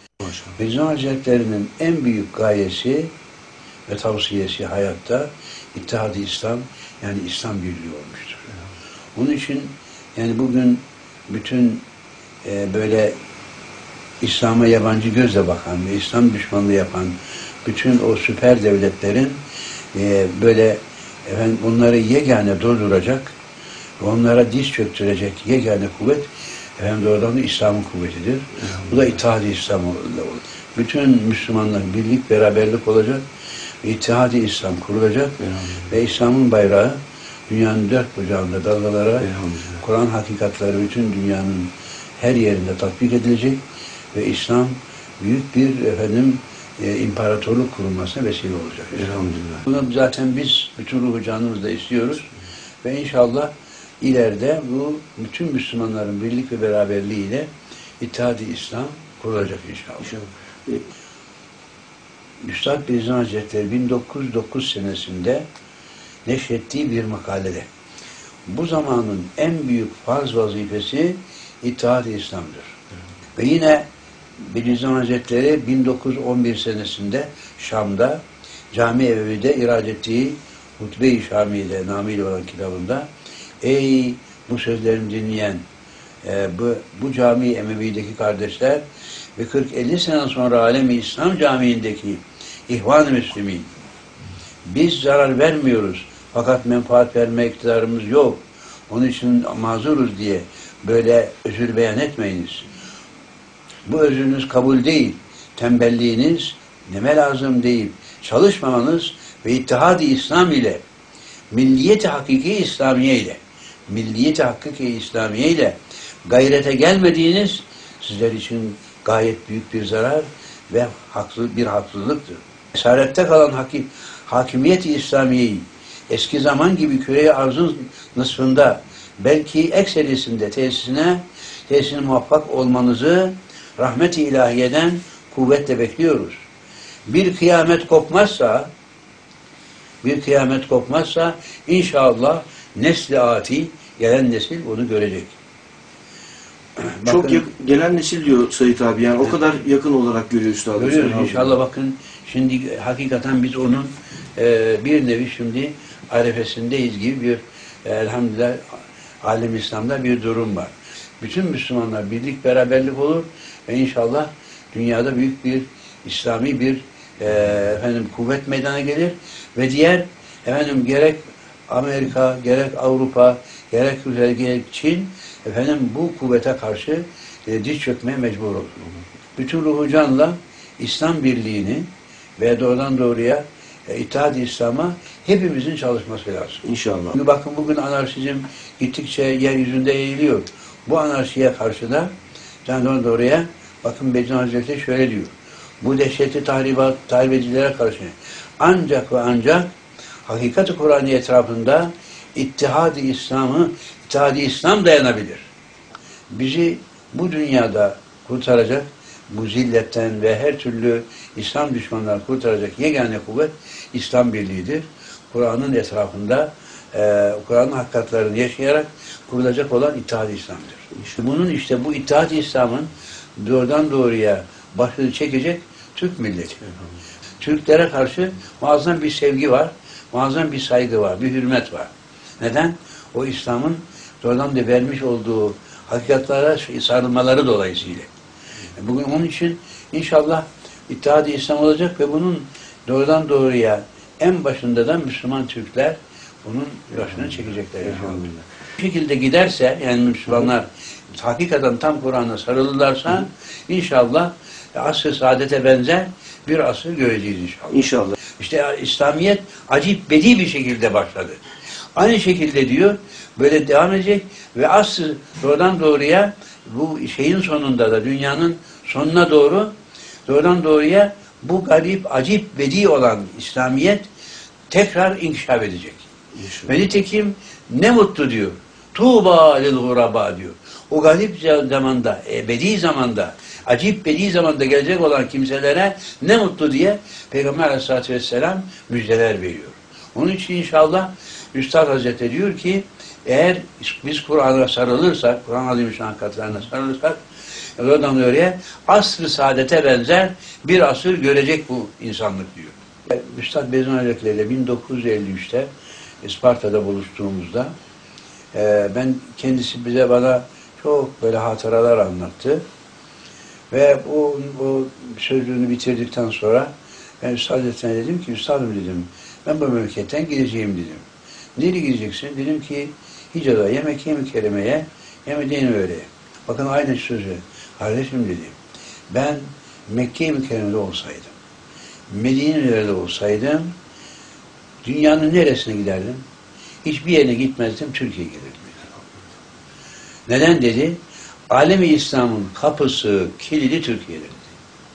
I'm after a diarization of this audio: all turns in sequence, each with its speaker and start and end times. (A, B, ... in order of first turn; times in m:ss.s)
0:00.5-0:03.1 A
0:03.9-0:08.4 A
0:09.2-0:11.8 A
0:12.4-0:13.2 A
0:14.2-0:19.4 A
0:19.9-0:23.3 A
0:24.0-0:33.2 A
0:33.8-0:43.6 A
0:35.4-0:35.7 B
0:39.2-0:39.8 B
0:44.1-0:52.3 A
0:48.9-0:49.6 B
0:52.8-1:00.1 A
1:00.0-1:00.8 B
1:02.4-1:05.4 A
1:06.2-1:07.7 A
1:08.5-1:12.8 A
1:13.4-1:13.8 A
1:14.4-1:23.1 A
1:23.6-1:25.6 A
1:26.2-1:28.8 A
1:29.4-1:33.7 A
1:34.6-1:42.6 A
1:43.8-1:50.8 A
1:51.5-2:16.4 A
2:17.1-2:18.7 A
2:20.0-2:25.4 A
2:26.8-2:27.4 A
2:27.0-2:31.6 B
2:30.8-2:58.8 A
2:59.4-3:06.6 A
3:06.6-3:07.1 B
3:07.1-3:12.1 A
3:12.6-3:19.7 A
3:20.2-3:25.5 A
3:26.3-3:46.6 A
3:47.4-3:58.1 A
3:58.7-4:17.8 A
4:07.8-4:08.4 B
4:17.7-4:18.2 B
4:18.3-4:21.4 A
4:21.9-4:29.7 A
4:30.2-4:34.1 A
4:34.7-4:36.1 A
4:36.4-4:36.7 B
4:36.6-4:57.2 A
4:57.8-5:05.7 A
5:06.2-5:07.7 A
5:08.5-5:12.6 A
5:13.7-5:21.0 A
5:21.6-5:28.6 A
5:29.1-5:31.3 A
5:32.1-5:33.7 A
5:34.8-5:36.2 A
5:36.8-5:39.0 A
5:40.3-5:41.0 A
5:41.5-5:44.5 A